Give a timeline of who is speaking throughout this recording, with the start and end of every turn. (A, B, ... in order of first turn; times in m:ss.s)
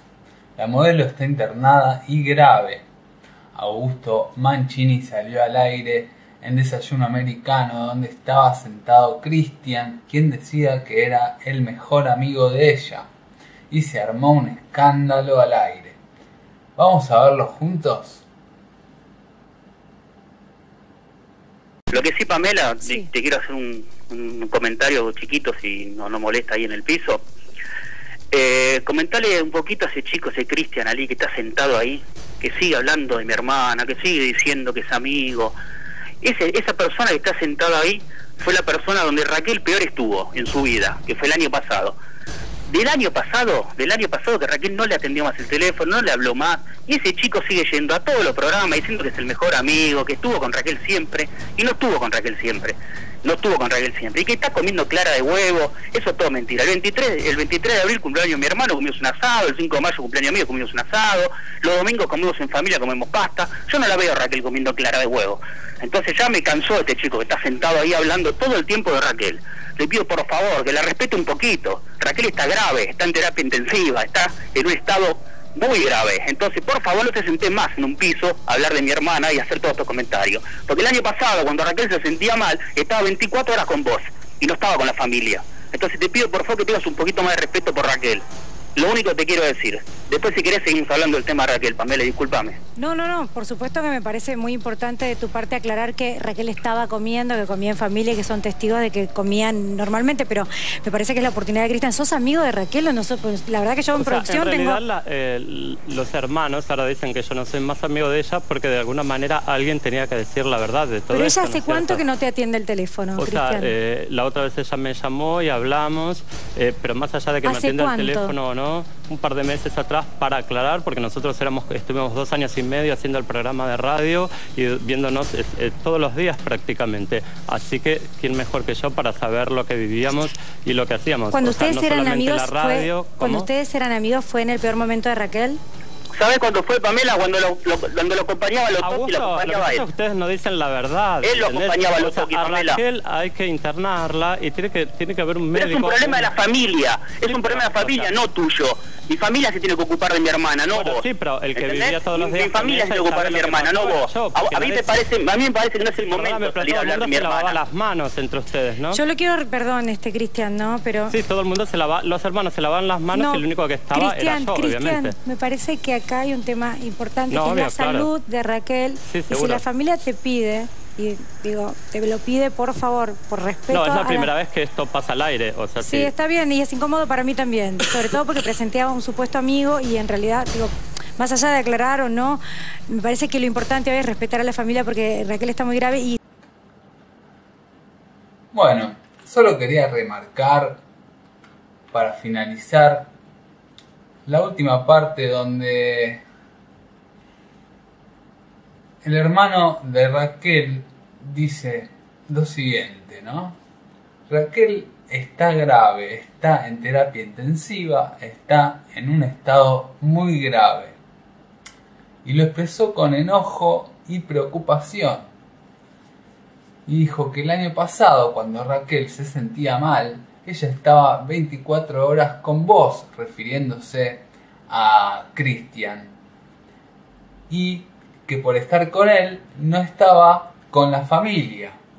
0:00.6-0:02.8 A
0:03.5-0:13.1 A
0:13.7-0:16.0 A
0:16.8-0:18.2 A
0:21.9-0:27.2 B
0:28.3-0:35.6 B
0:36.2-0:42.0 B
0:42.7-1:28.2 B
1:28.8-1:32.6 B
1:32.8-1:44.8 C
1:44.0-1:52.0 D
1:51.1-1:53.7 C
1:53.2-2:13.5 D
1:57.4-1:58.3 C
2:11.3-2:15.6 C
2:16.2-2:19.8 B
2:18.8-2:26.3 D
2:21.2-2:22.8 B
2:25.5-2:37.6 B
2:27.3-2:28.1 D
2:30.7-2:35.0 D
2:36.0-2:39.0 D
2:38.9-2:41.2 C
2:41.1-2:45.2 D
2:43.1-2:54.3 C
2:47.3-2:48.1 D
2:49.1-2:49.6 D
2:53.7-2:56.1 D
2:55.8-3:06.2 C
3:08.5-3:10.8 A
3:11.9-3:13.1 A
3:14.3-3:16.2 A
3:19.0-3:23.6 A
3:24.3-3:31.0 A
3:32.2-3:35.3 A
3:36.9-3:46.1 A
3:47.5-3:51.8 A